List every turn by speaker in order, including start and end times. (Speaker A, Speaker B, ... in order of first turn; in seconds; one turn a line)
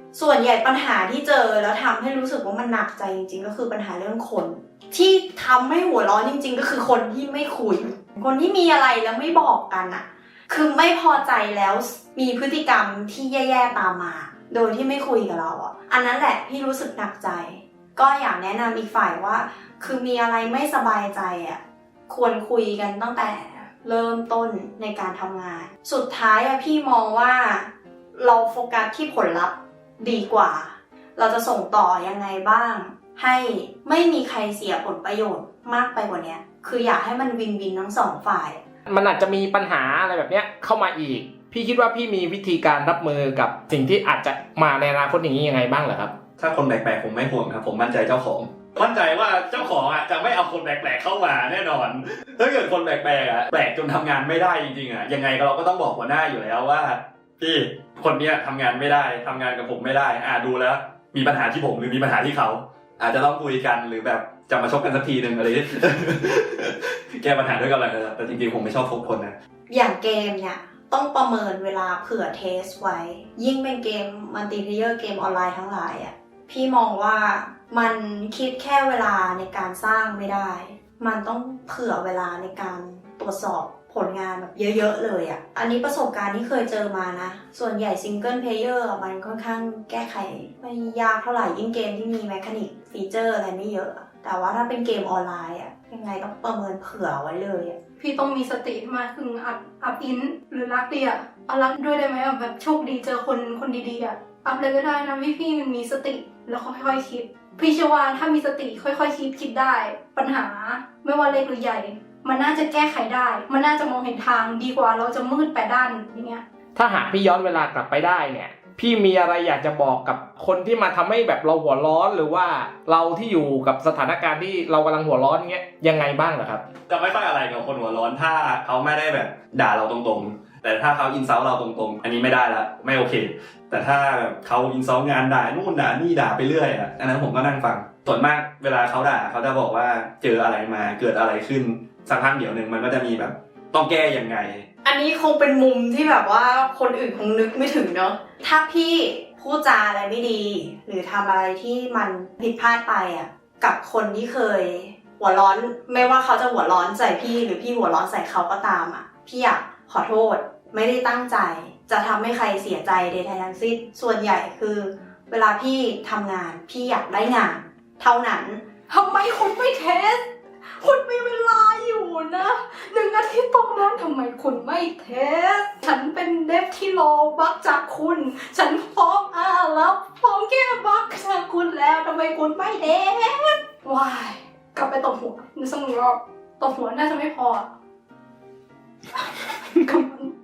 Speaker A: 0.1-38.6
Speaker B: 38.9-46.1
Speaker C: 46.4-69.3
Speaker A: 69.7-97.8
Speaker D: 98.0-116.4
Speaker B: 116.8-126.6
Speaker C: 126.9-144.7
Speaker A: 144.8-168.6
Speaker D: 168.9-187.7
Speaker D: 189.2-190.3